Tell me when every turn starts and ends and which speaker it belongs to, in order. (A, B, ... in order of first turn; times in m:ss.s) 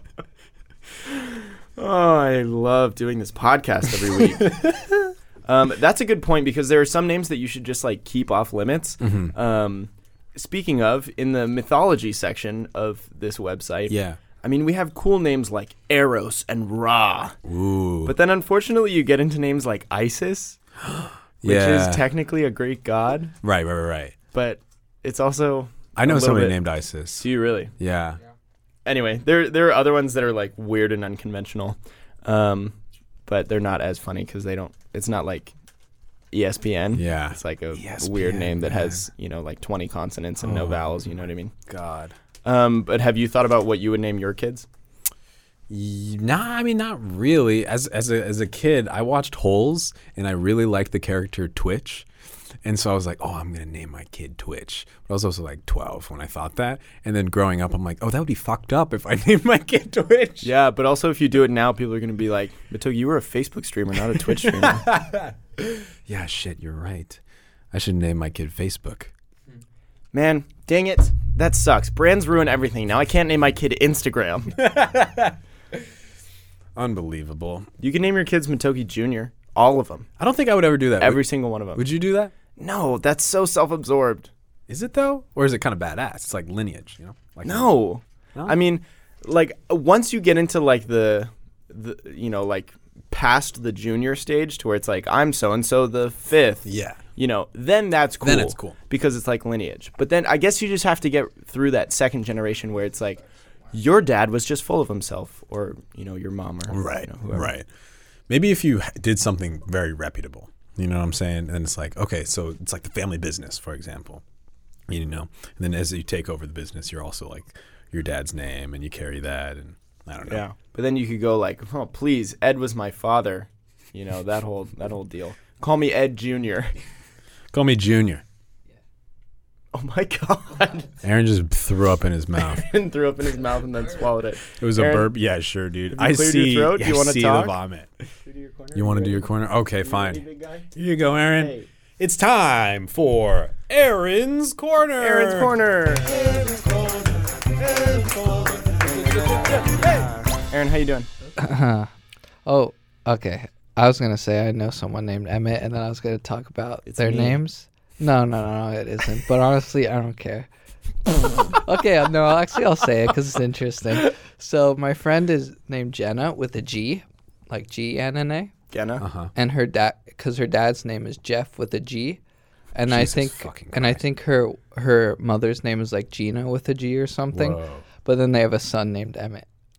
0:01.1-0:04.8 A
0:04.5-0:04.8 B
0:05.5-0:17.4 A
0:09.0-0:09.3 B
0:13.9-0:14.2 B
0:17.4-0:18.2 B
0:18.0-0:20.6 A
0:20.8-0:22.0 B
0:21.4-0:23.3 A
0:23.4-0:24.2 B
0:24.3-0:26.6 A
0:26.0-0:28.2 B
0:27.2-0:27.7 A
0:28.8-0:35.5 A
0:36.3-0:41.5 A
0:36.9-0:39.0 B
0:40.4-0:42.1 B
0:42.4-0:44.7 A
0:45.7-0:52.1 B
0:52.6-1:00.5 B
1:00.4-1:04.9 A
1:04.4-1:07.2 B
1:07.7-1:09.1 B
1:10.1-1:14.6 A
1:14.6-1:15.4 B
1:16.8-1:17.7 B
1:17.8-1:20.1 A
1:20.2-1:22.3 B
1:21.0-1:21.8 A
1:22.6-1:24.3 A
1:24.7-1:27.7 B
1:27.4-1:47.5 A
1:36.6-1:37.0 B
1:38.2-1:38.8 B
1:46.7-1:47.7 B
1:48.3-1:54.2 B
1:54.9-2:00.4 B
2:00.3-2:06.7 A
2:07.5-2:08.2 B
2:09.7-2:10.9 A
2:11.0-2:12.6 B
2:12.4-2:15.1 A
2:14.6-2:18.1 B
2:15.9-2:17.6 A
2:18.2-2:19.3 A
2:18.7-2:20.2 B
2:19.8-2:20.7 A
2:20.7-2:25.5 B
2:21.3-2:21.7 A
2:25.0-2:26.6 A
2:26.4-2:30.0 B
2:28.8-2:31.1 A
2:31.4-2:31.9 C
2:32.5-2:40.5 C
2:36.9-2:37.4 A
2:41.3-2:48.6 C
2:48.7-2:49.0 A
2:49.0-2:49.3 B
2:49.4-2:52.2 C
2:52.8-2:59.5 C
2:52.9-2:54.0 B
2:57.3-2:57.8 B